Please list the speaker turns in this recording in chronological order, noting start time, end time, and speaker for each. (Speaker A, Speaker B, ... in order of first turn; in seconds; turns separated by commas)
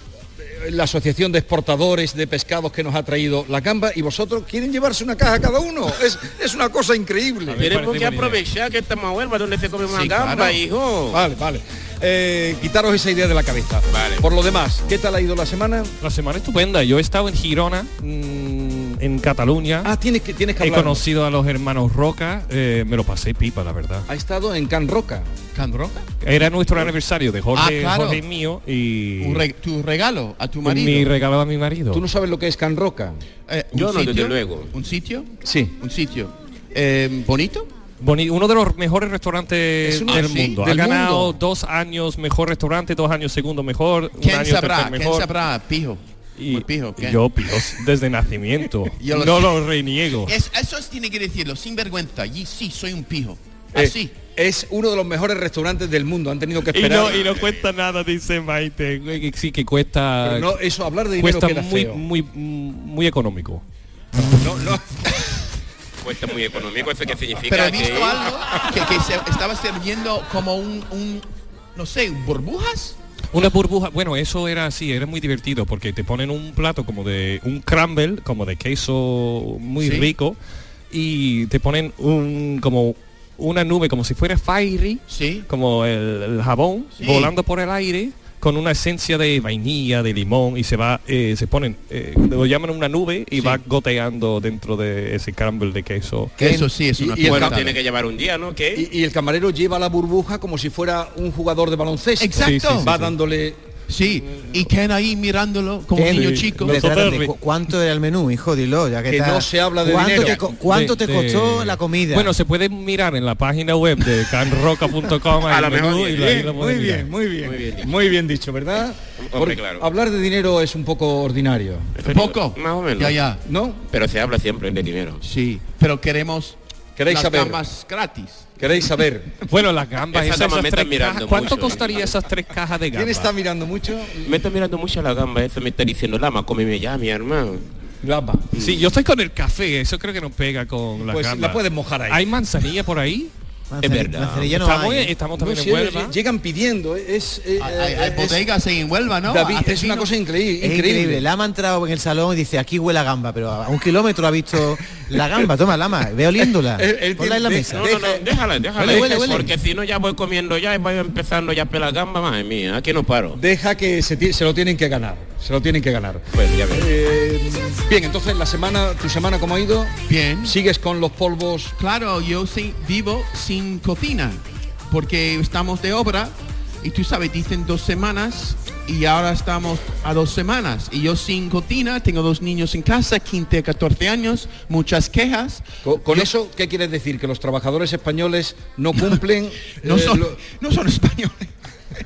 Speaker A: 0.4-7.7, Speaker B: 7.5-8.4, Speaker C: 7.6-11.2, Speaker D: 9.9-10.6, Speaker A: 11.1-15.9, Speaker C: 13.9-14.3, Speaker B: 16.0-19.9, Speaker A: 19.9-21.0, Speaker B: 20.6-24.1, Speaker A: 24.1-25.3, Speaker D: 25.5-26.1, Speaker B: 26.2-29.4, Speaker D: 27.5-28.2, Speaker D: 29.2-31.1, Speaker B: 30.6-32.0, Speaker A: 31.9-33.2, Speaker D: 33.5-37.7, Speaker C: 33.7-34.7, Speaker A: 35.5-35.7, Speaker B: 38.0-45.3, Speaker A: 39.9-41.4, Speaker D: 40.1-40.6, Speaker D: 44.2-47.2, Speaker B: 46.4-50.3, Speaker D: 49.0-49.6, Speaker D: 50.2-54.1, Speaker A: 53.8-57.3, Speaker B: 56.7-60.5, Speaker C: 57.1-57.6, Speaker A: 60.2-62.0, Speaker B: 61.2-63.6, Speaker A: 64.2-65.4, Speaker C: 66.0-68.7, Speaker D: 67.5-73.0, Speaker B: 73.3-80.4, Speaker D: 79.8-80.1, Speaker B: 80.9-96.4, Speaker D: 85.1-85.5, Speaker D: 87.0-87.3, Speaker D: 96.4-97.8, Speaker E: 96.4-96.7, Speaker A: 97.0-97.6, Speaker C: 97.2-98.9, Speaker A: 98.8-103.6, Speaker D: 102.2-103.1, Speaker B: 102.4-103.1, Speaker D: 103.9-106.9, Speaker E: 106.0-112.3, Speaker B: 106.1-107.3, Speaker A: 109.1-110.4, Speaker B: 110.4-117.1, Speaker C: 115.5-116.5, Speaker A: 116.2-121.9, Speaker C: 117.4-117.9, Speaker C: 119.2-119.9, Speaker C: 122.0-123.2, Speaker D: 122.0-123.4, Speaker A: 123.5-123.8, Speaker C: 123.9-125.2, Speaker D: 125.2-128.5, Speaker A: 127.0-127.7, Speaker A: 128.6-129.4, Speaker B: 129.5-133.3, Speaker C: 130.1-132.2, Speaker A: 132.9-134.3, Speaker C: 134.2-137.7, Speaker A: 138.0-138.5, Speaker C: 138.5-138.9, Speaker B: 138.5-143.3, Speaker A: 141.0-142.2, Speaker E: 143.7-145.2, Speaker C: 143.8-144.5, Speaker B: 144.5-146.2, Speaker A: 145.4-148.4, Speaker D: 147.6-150.1, Speaker A: 149.3-151.2, Speaker E: 150.6-157.9, Speaker A: 156.8-159.5, Speaker C: 157.7-163.4, Speaker E: 158.8-159.5, Speaker A: 163.3-171.7, Speaker C: 166.3-166.9, Speaker D: 170.1-170.6, Speaker D: 171.8-186.3, Speaker A: 185.8-190.4, Speaker D: 189.7-191.5